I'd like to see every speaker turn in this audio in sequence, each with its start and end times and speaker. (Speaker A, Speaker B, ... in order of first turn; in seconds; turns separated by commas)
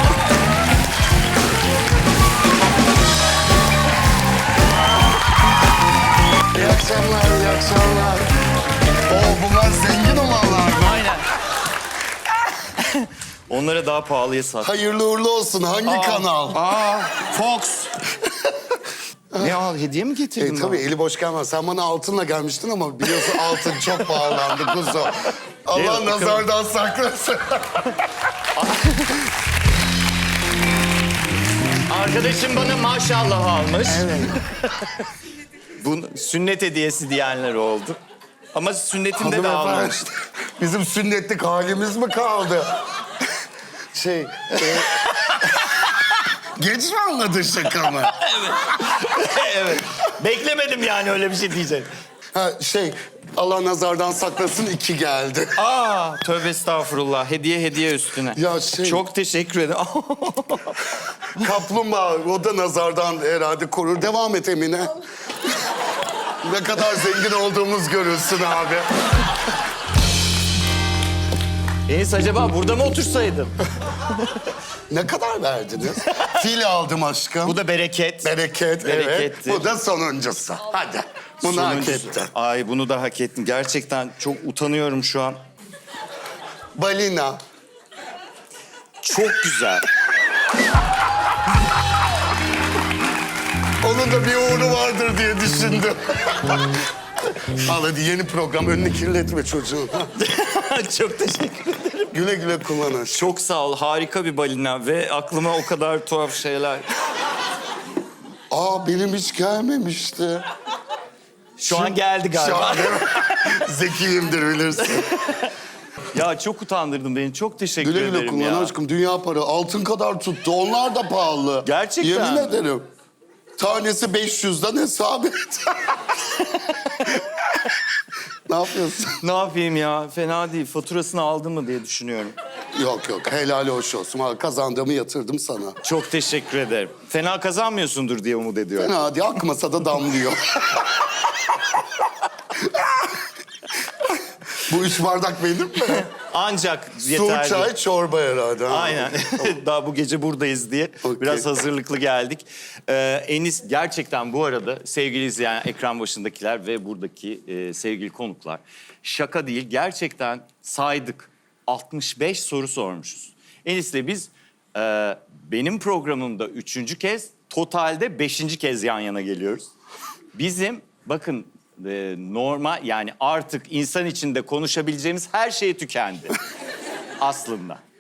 Speaker A: 6.5-8.3, Speaker A: 9.1-11.1, Speaker B: 10.8-11.3, Speaker B: 12.6-14.7, Speaker A: 14.6-16.6, Speaker B: 15.8-18.0, Speaker A: 19.3-19.6, Speaker B: 19.4-20.8, Speaker A: 20.4-27.9, Speaker B: 23.0-25.1, Speaker B: 25.7-26.4, Speaker B: 28.5-29.3, Speaker B: 31.9-35.1, Speaker A: 33.9-34.4, Speaker B: 35.8-38.0, Speaker B: 38.5-40.0, Speaker A: 39.1-42.7, Speaker A: 43.9-45.1, Speaker B: 44.7-46.0, Speaker A: 46.5-48.1, Speaker B: 47.8-51.9, Speaker A: 52.3-55.5, Speaker B: 55.5-61.4, Speaker A: 58.3-59.0, Speaker A: 61.3-64.9, Speaker A: 66.4-68.9, Speaker B: 71.9-74.4, Speaker A: 74.9-77.6, Speaker B: 76.0-76.4, Speaker B: 77.4-79.7, Speaker A: 78.2-82.3, Speaker B: 81.4-85.4, Speaker A: 86.8-87.4, Speaker B: 89.0-89.8, Speaker A: 93.8-96.6, Speaker A: 97.4-100.1, Speaker B: 100.2-102.1, Speaker A: 102.1-103.3, Speaker B: 103.1-106.8, Speaker A: 108.5-110.4, Speaker B: 111.6-113.5, Speaker A: 111.7-115.1, Speaker B: 114.8-115.5, Speaker B: 116.1-118.7, Speaker A: 117.8-122.9, Speaker B: 121.6-122.6, Speaker A: 123.6-126.1, Speaker B: 126.4-127.2, Speaker A: 128.4-129.2, Speaker B: 129.2-132.3, Speaker A: 132.7-135.8, Speaker B: 135.8-138.9, Speaker A: 138.8-141.4, Speaker A: 142.5-143.3, Speaker A: 144.6-146.1, Speaker B: 145.9-147.7, Speaker A: 147.1-149.6, Speaker B: 148.7-169.7, Speaker A: 151.0-151.4, Speaker B: 170.3-176.3, Speaker B: 177.2-177.8